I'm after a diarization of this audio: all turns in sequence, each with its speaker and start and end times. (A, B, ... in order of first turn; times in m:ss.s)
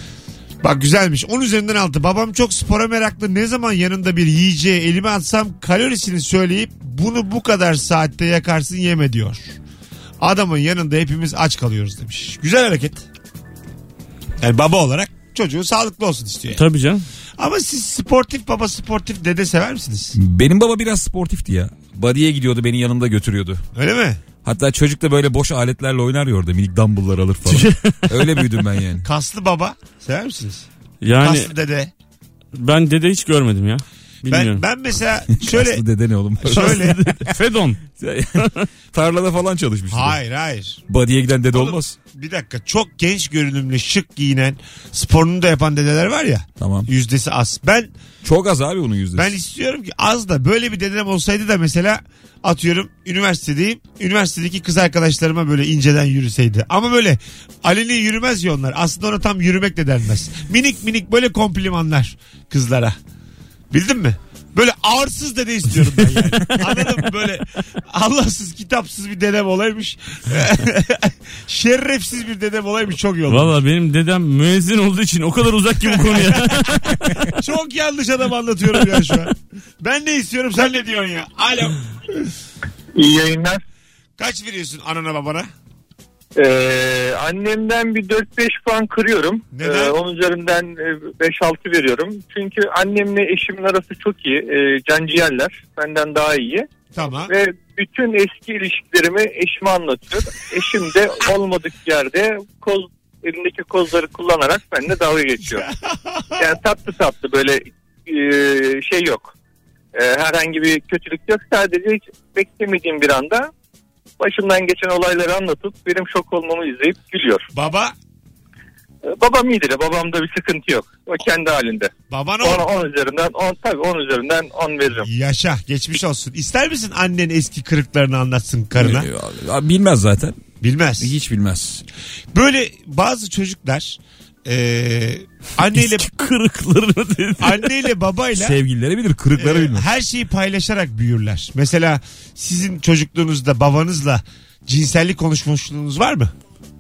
0:00.6-0:09.6 A
0:10.2-0:13.0 A
0:14.4-0:16.6 A
0:16.6-0:17.0 B
0:17.4-0:20.2 A
0:20.2-0:23.6 C
0:23.8-0:24.2 A
0:24.4-0:29.0 C
0:27.5-0:28.4 B
0:29.0-0:30.7 A
0:31.0-0:31.5 B
0:31.2-0:31.9 A
0:32.5-0:34.6 B
0:34.3-0:35.8 A
0:35.4-0:37.0 C
0:36.4-0:37.0 A
0:36.5-0:37.8 B
0:38.0-0:40.2 C
0:38.4-0:38.7 B
0:39.9-0:40.8 A
0:40.9-0:42.0 C
0:41.5-0:47.9 A
0:46.6-0:46.9 C
0:48.2-0:49.3 C
0:49.2-1:03.0 A
1:03.7-1:13.6 A
1:13.3-1:17.3 B
1:17.4-1:21.8 A
1:23.0-1:23.6 D
1:24.2-1:25.5 A
1:26.4-1:36.7 D
1:29.5-1:30.0 A
1:36.9-1:37.3 A
1:37.3-1:45.7 D
1:45.4-1:46.5 A
1:46.4-1:49.3 D
1:49.9-1:53.5 D
1:54.2-1:57.5 D
1:57.5-1:57.9 A
1:59.0-2:05.1 D
2:02.1-2:02.7 A
2:05.0-2:09.1 A
2:08.8-2:10.4 C
2:10.6-2:11.1 A
2:11.0-2:11.8 C
2:12.3-2:16.1 A
2:15.7-2:17.9 B
2:17.4-2:18.6 A
2:18.3-2:19.9 C
2:19.4-2:26.3 A